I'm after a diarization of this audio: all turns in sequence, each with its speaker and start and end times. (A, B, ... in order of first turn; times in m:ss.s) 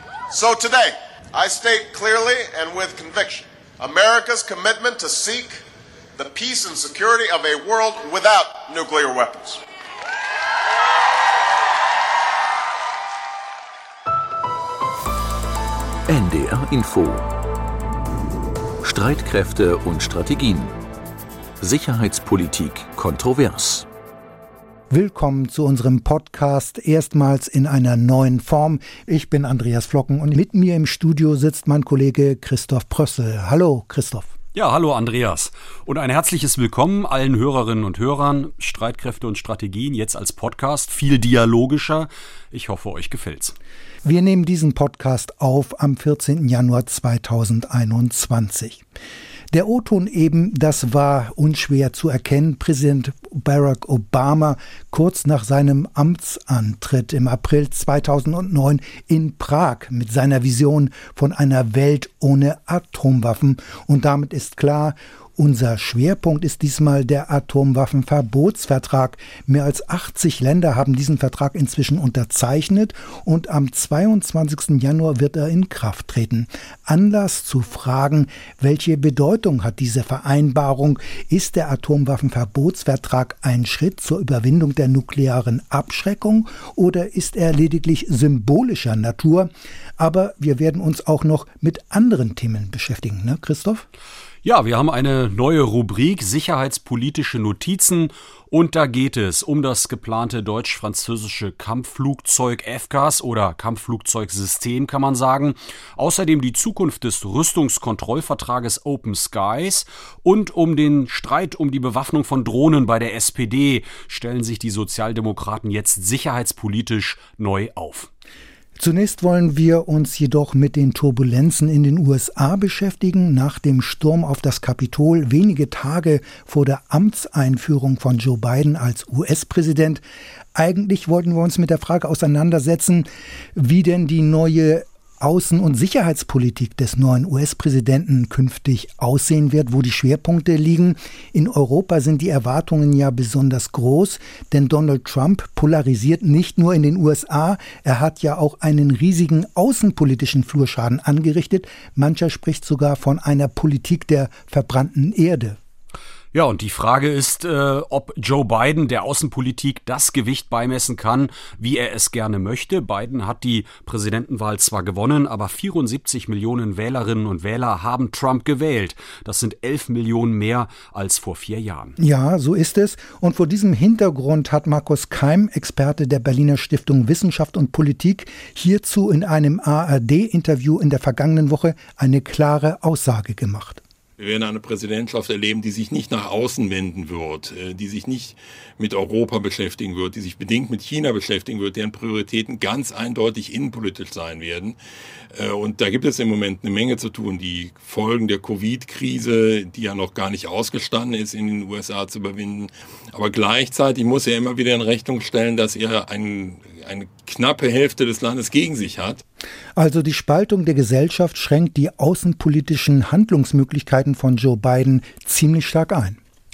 0:00.3-0:05.6 A
0:06.2-0:09.6 A
0:16.1-0:17.4 B
0:18.8-0:20.7 B
0:21.6-0:23.9 B
0:24.9-0:34.3 C
0:34.5-0:43.6 D
0:44.0-0:48.8 C
0:49.5-1:33.8 C
1:34.4-1:58.1 D
1:58.8-2:10.0 C
2:10.5-2:35.6 C
2:36.3-2:51.9 D
2:52.0-3:03.8 C
3:04.2-3:14.8 E
3:15.3-3:29.2 E
3:29.8-3:36.2 C